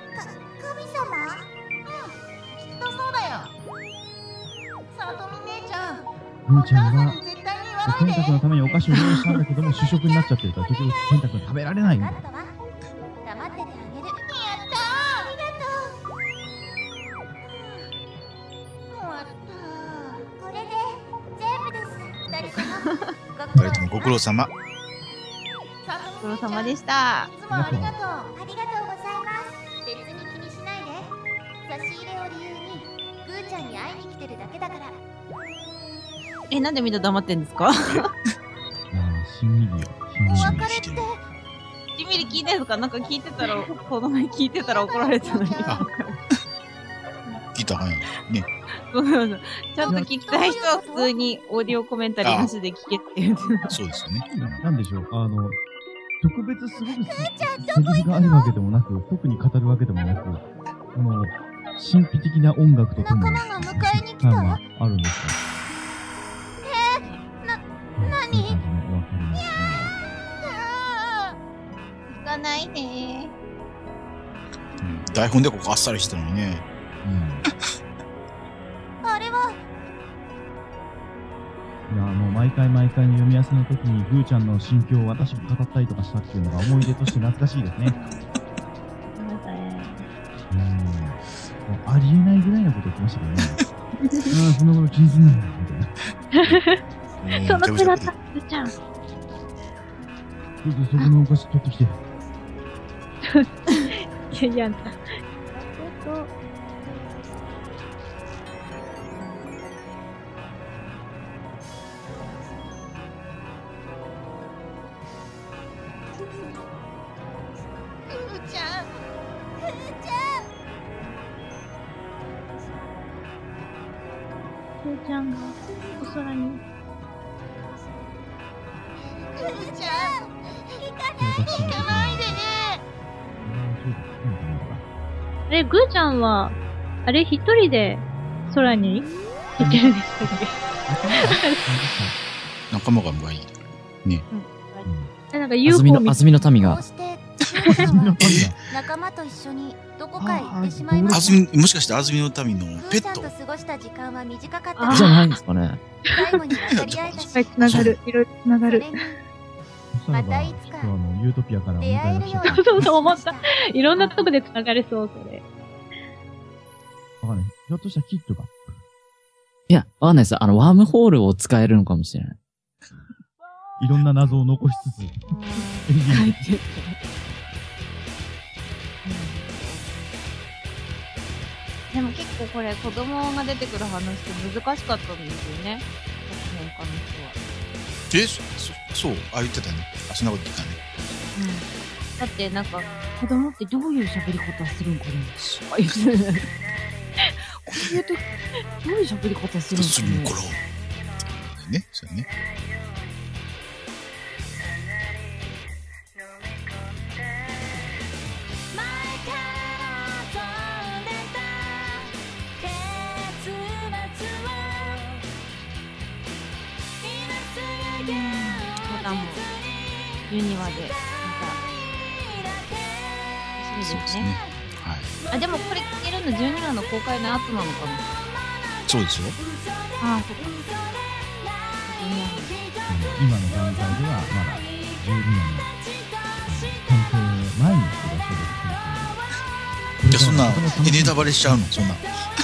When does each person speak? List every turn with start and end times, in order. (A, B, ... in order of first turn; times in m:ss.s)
0:00.1-0:01.5 A
0:02.7-0:03.5 B
0:05.0-0:06.0 B
0:06.4-0:07.2 C
0:06.7-0:08.4 B
0:07.8-0:12.2 C
0:11.9-0:12.6 A
0:13.2-0:15.9 A
0:14.3-0:15.3 B
0:17.5-0:17.8 A
0:19.0-0:20.2 B
0:20.4-0:24.2 A
0:23.6-0:24.5 D
0:25.8-0:26.8 B
0:26.2-0:27.3 E
0:27.3-0:28.3 B
0:27.5-0:28.0 C
0:28.3-0:35.0 A
0:36.5-0:38.1 E
0:38.9-0:40.9 C
0:39.8-0:41.1 D
0:40.3-0:41.2 A
0:42.0-0:46.2 E
0:44.6-0:45.8 A
0:45.6-0:46.4 D
0:47.5-0:48.5 D
0:48.9-0:53.8 E
0:49.8-0:51.1 A
0:49.9-0:50.1 C
0:52.2-0:52.5 D
0:53.7-0:54.6 D
0:54.3-0:55.6 C
0:56.2-1:05.4 C
0:56.9-0:58.4 A
1:03.6-1:04.6 A
1:06.6-1:08.5 A
1:08.0-1:09.9 C
1:12.1-1:13.3 E
1:14.8-1:16.6 D
1:17.0-1:17.4 C
1:19.0-1:19.6 A
1:21.9-1:28.0 C
1:29.2-1:30.0 F
1:30.5-1:33.6 C
1:34.3-1:36.0 C
1:36.3-1:36.8 F
1:37.2-1:38.1 D
1:37.3-1:38.7 F
1:40.6-1:42.0 C
1:43.2-1:45.0 F
1:45.5-1:46.3 F
2:04.8-2:06.6 F
2:09.4-2:12.0 A
2:11.2-2:12.4 C
2:12.0-2:12.8 B
2:13.4-2:14.8 C
2:15.5-2:20.5 F
2:20.9-2:22.2 C
2:21.2-2:21.6 F
2:22.7-2:24.2 D
2:24.6-2:26.4 F
2:24.8-2:25.1 C
2:25.6-2:26.8 G
2:26.3-2:28.1 A
2:27.5-2:28.5 D
2:27.8-2:28.6 C
2:28.7-2:31.4 A
2:30.2-2:31.4 C
2:31.1-2:33.3 D
2:32.8-2:35.4 A
2:34.8-2:35.2 F
2:34.9-2:35.8 G
2:36.0-2:36.4 F
2:36.1-2:37.6 A
2:36.7-2:38.0 D
2:37.4-2:38.9 F
2:38.7-2:39.2 A
2:39.9-2:42.9 C
2:40.1-2:40.9 A
2:41.8-2:43.5 A
2:42.4-2:45.4 F
2:44.0-2:44.2 E
2:47.2-2:48.6 C
2:49.7-2:52.4 G
2:53.8-2:56.4 C
2:55.3-2:57.0 E
2:59.0-2:59.8 E
3:01.9-3:07.4 E
3:08.1-3:10.8 D
3:11.3-3:11.6 E
3:12.2-3:16.5 E
3:17.6-3:18.2 E
3:18.8-3:20.3 E
3:19.7-3:20.6 D
3:21.3-3:22.3 D
3:38.0-3:39.4 E
3:40.3-3:41.6 E
3:43.6-3:44.3 E
3:43.8-3:45.1 D
3:45.3-3:48.0 E
3:48.9-3:49.4 D
3:50.0-3:50.5 E
3:51.8-3:52.6 E
3:52.9-3:55.7 C
3:56.4-3:59.2 C
4:00.0-4:01.8 C
4:00.1-4:02.1 D